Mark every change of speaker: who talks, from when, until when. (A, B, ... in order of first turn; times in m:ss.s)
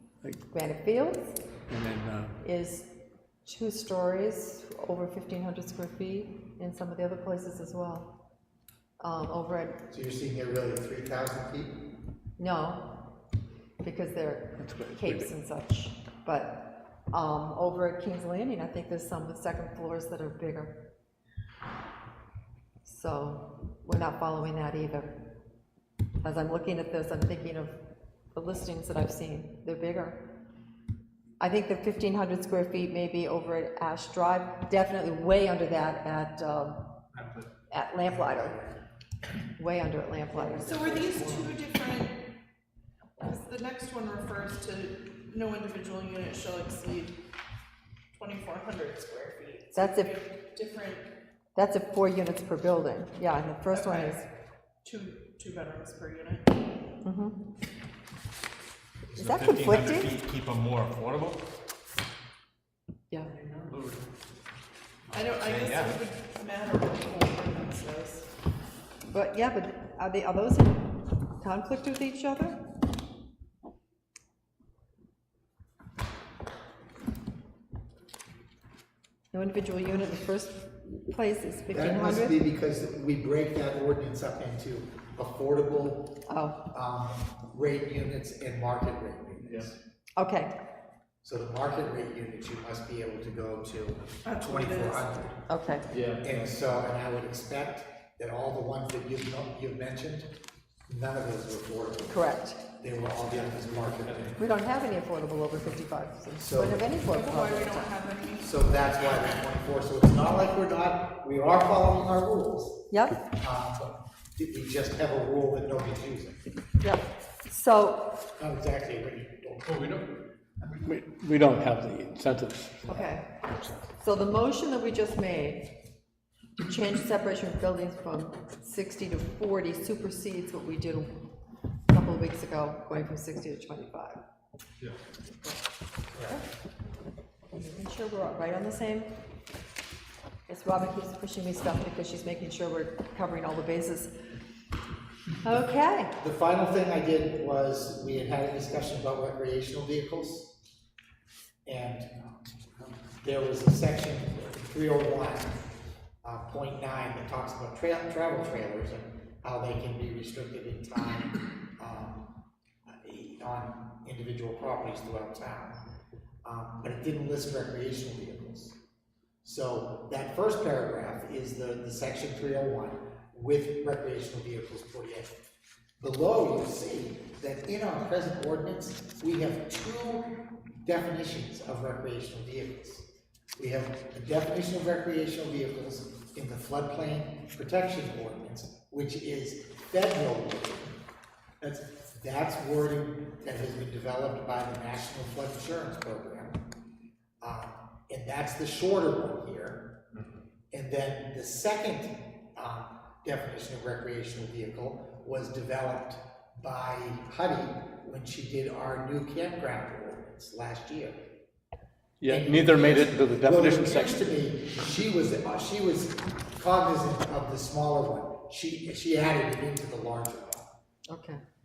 0:00.5-0:01.4 A
0:01.7-0:02.4 B
0:02.4-0:02.9 A
0:03.4-0:08.2 A
0:09.0-0:09.8 A
0:09.9-0:11.8 C
0:12.4-0:13.2 A
0:13.8-0:20.9 A
0:14.6-0:15.3 B
0:22.8-0:25.3 A
0:26.2-0:30.4 A
0:31.4-0:36.9 A
0:37.7-0:38.6 A
0:38.1-0:38.6 C
0:39.6-0:41.3 A
0:40.4-0:41.5 C
0:40.6-0:42.2 D
0:43.2-0:47.2 D
0:48.2-0:51.1 D
0:49.7-0:50.2 A
0:51.6-0:54.2 A
0:53.7-0:54.2 D
0:54.8-0:56.6 D
0:57.0-0:57.5 A
0:59.2-1:00.2 A
0:59.2-1:01.3 E
1:00.3-1:00.7 B
1:05.1-1:08.3 D
1:05.3-1:05.9 E
1:05.6-1:06.0 B
1:09.1-1:12.7 A
1:19.3-1:22.4 A
1:21.7-1:26.2 C
1:26.3-1:26.6 A
1:26.7-1:29.8 C
1:30.2-1:30.5 A
1:31.2-1:35.4 C
1:34.2-1:35.1 D
1:35.5-1:35.9 A
1:35.9-1:36.2 B
1:36.2-1:40.3 C
1:40.9-1:44.4 C
1:42.1-1:42.6 A
1:43.0-1:44.4 B
1:44.4-1:47.9 A
1:46.4-1:46.9 C
1:47.1-1:49.3 D
1:48.4-1:52.8 C
1:52.9-1:53.2 A
1:53.4-1:56.4 C
1:56.8-1:58.2 A
1:58.4-2:00.0 C
2:00.7-2:03.8 B
2:02.9-2:03.4 A
2:04.0-2:05.7 A
2:06.6-2:11.3 A
2:11.9-2:14.2 A
2:16.1-2:16.4 C
2:17.6-2:19.2 A
2:20.5-2:24.1 A
2:25.4-2:26.1 A
2:26.2-2:30.6 C
2:31.7-2:32.5 C
2:33.2-2:35.6 C
2:36.2-2:42.4 C
2:42.9-2:45.8 C
2:46.4-2:48.8 C
2:49.4-2:55.3 C
2:56.0-3:10.9 C
3:11.6-3:16.6 C
3:17.4-3:20.0 C
3:20.7-3:31.2 C
3:32.2-3:34.2 B
3:32.3-3:40.7 C
3:41.1-3:41.4 A